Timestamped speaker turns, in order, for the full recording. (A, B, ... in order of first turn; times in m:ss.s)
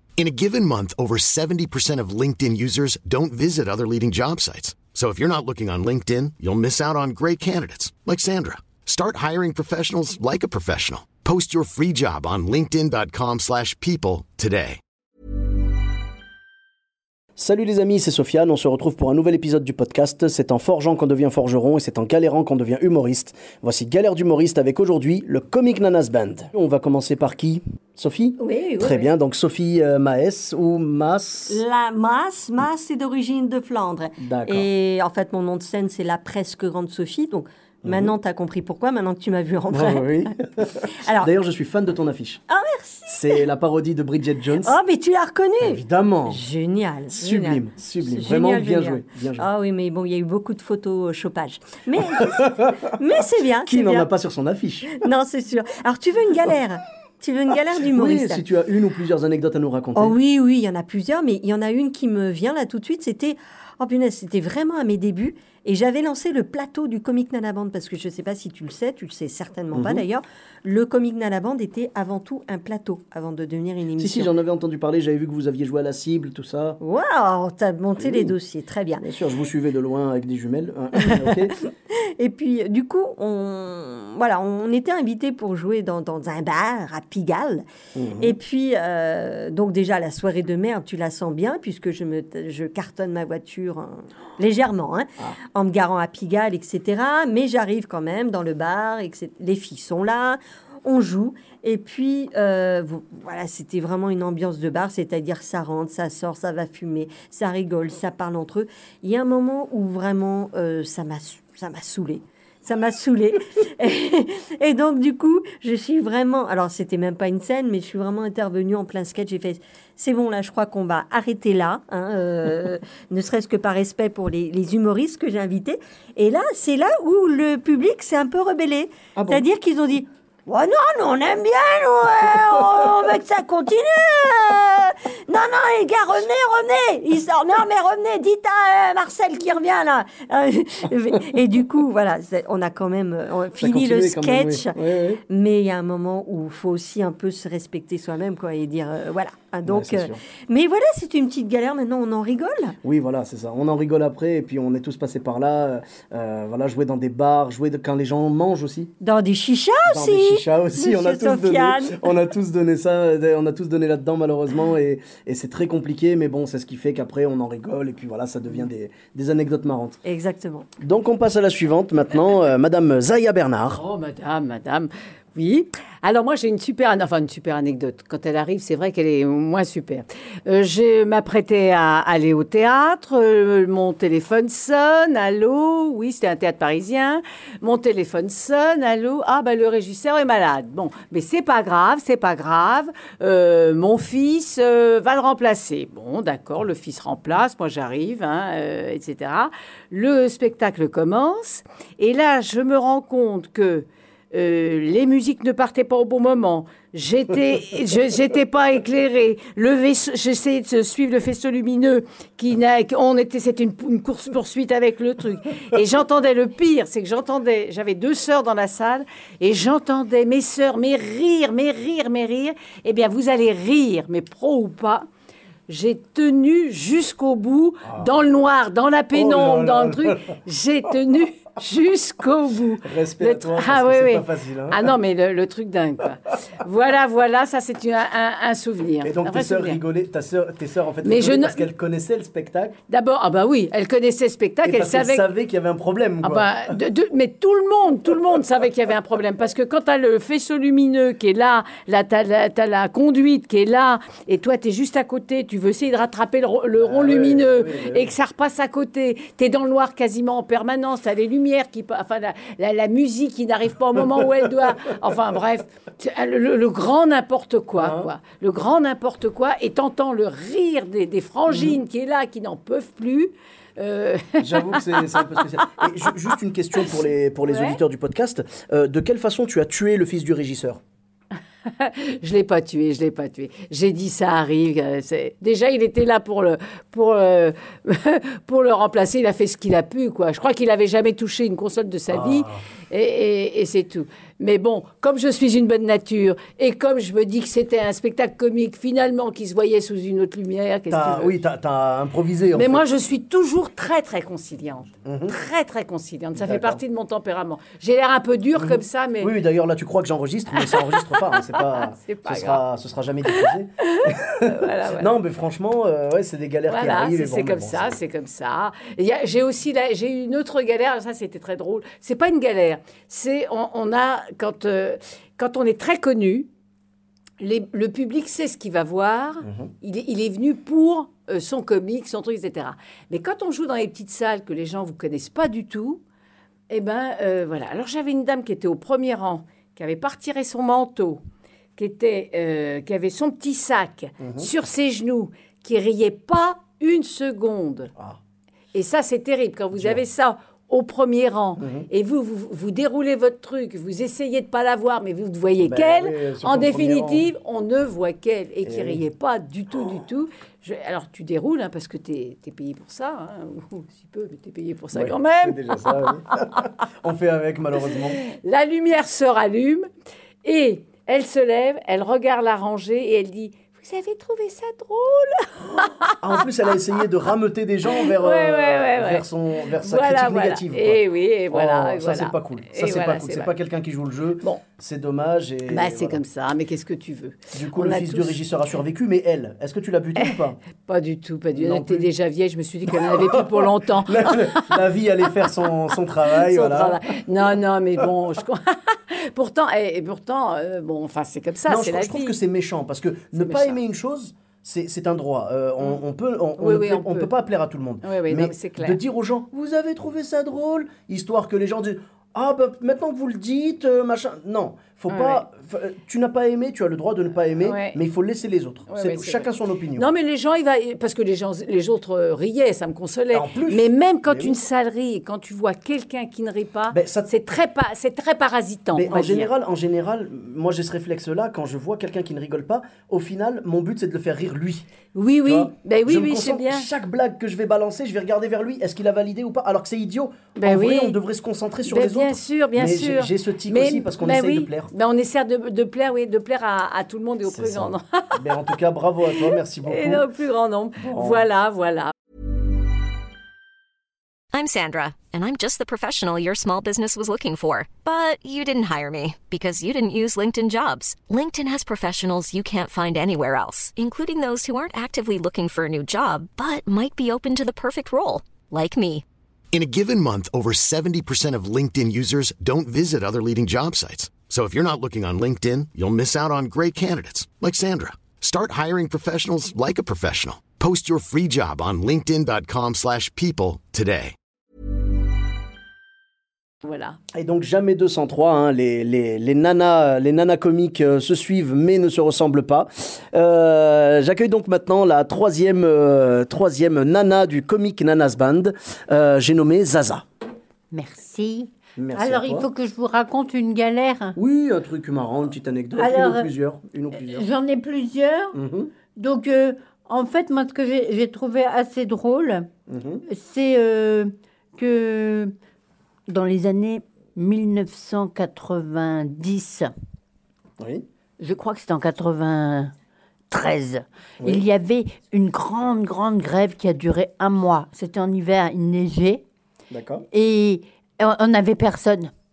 0:00.2-0:14.8 A
0:17.4-0:31.6 B
0:28.4-0:29.1 C
0:31.5-0:40.3 C
0:34.2-0:34.6 B
0:37.8-0:38.1 B
0:39.7-0:42.4 B
0:42.5-0:43.4 C
0:43.1-0:44.7 B
0:44.6-0:54.1 C
0:45.6-0:46.4 B
0:47.1-0:49.5 B
0:53.6-0:54.9 B
0:54.9-0:58.4 C
0:57.9-1:00.2 B
0:59.9-1:14.3 C
1:09.7-1:10.0 B
1:14.0-1:16.8 B
1:16.8-1:19.0 C
1:18.0-1:18.3 B
1:19.0-1:21.5 B
1:22.2-1:27.6 C
1:27.9-1:28.4 B
1:28.2-2:24.8 C
2:09.1-2:09.4 B
2:23.6-2:25.2 B
2:25.3-2:32.8 C
2:29.6-2:30.2 B
2:32.8-2:38.9 B
2:39.0-2:42.0 C
2:39.9-2:50.0 B
2:50.0-2:50.7 C
2:50.8-2:53.8 B
2:53.7-3:45.0 D
3:45.7-3:59.8 D
3:49.1-3:50.3 B
3:52.8-3:54.9 B
3:59.0-4:02.8 B
4:01.0-4:01.7 D
4:02.9-4:05.3 D
4:04.6-4:06.6 B
4:06.2-4:35.3 D
4:16.8-4:18.1 B
4:27.8-4:28.1 B
4:31.5-4:31.8 B
4:34.4-4:40.8 B
4:37.4-4:37.8 D
4:41.8-5:01.3 D
4:52.1-4:52.6 B
5:00.9-5:02.8 B
5:02.5-5:09.3 D
5:05.0-5:05.4 B
5:06.4-5:06.8 B
5:08.6-5:18.0 B
5:10.6-5:12.6 D
5:13.3-5:15.1 D
5:16.7-5:26.5 D
5:27.4-5:36.0 D
5:29.4-5:29.7 B
5:36.7-5:41.2 D
5:41.8-5:47.9 D
5:44.2-5:44.5 B
5:48.7-6:06.1 D
5:49.7-5:50.0 B
5:51.6-5:51.9 B
5:55.6-5:57.3 B
5:58.6-5:59.0 B
6:04.9-6:08.2 B
6:08.2-6:09.9 D
6:10.4-6:16.1 D
6:16.2-6:26.2 B
6:18.2-6:19.2 D
6:19.8-6:23.5 D
6:25.7-6:28.4 D
6:27.5-6:30.6 B
6:30.8-6:34.8 D
6:31.5-6:32.1 B
6:32.9-6:37.0 B
6:36.4-6:42.4 D
6:41.7-7:00.1 B
6:43.4-6:43.8 D
6:46.6-6:47.3 D
6:48.0-6:49.0 D
6:55.1-6:55.4 D
6:57.6-6:58.0 D
6:58.9-7:09.5 D
7:03.3-7:04.6 B
7:06.9-7:07.3 B
7:08.9-7:14.9 B
7:15.1-7:16.9 D
7:15.4-7:24.9 B
7:20.6-7:21.2 D
7:21.8-7:28.4 D
7:27.4-7:30.2 B
7:29.3-7:32.1 D
7:31.0-7:31.4 B
7:34.5-7:49.2 E
7:49.7-8:04.3 A
8:06.8-8:07.2 D
8:07.3-8:20.2 B
8:20.9-8:24.4 F
8:22.0-8:22.7 B
8:24.4-8:27.4 B
8:26.0-8:26.5 F
8:27.1-8:28.6 F
8:28.5-8:28.9 B
8:29.1-8:32.7 F
8:32.9-8:33.2 B
8:33.3-8:35.5 F
8:36.3-8:39.9 F
8:40.8-8:41.0 B
8:41.4-8:42.9 F
8:43.5-8:49.4 F
8:44.4-8:44.6 B
8:49.9-8:50.2 B
8:50.3-8:52.3 F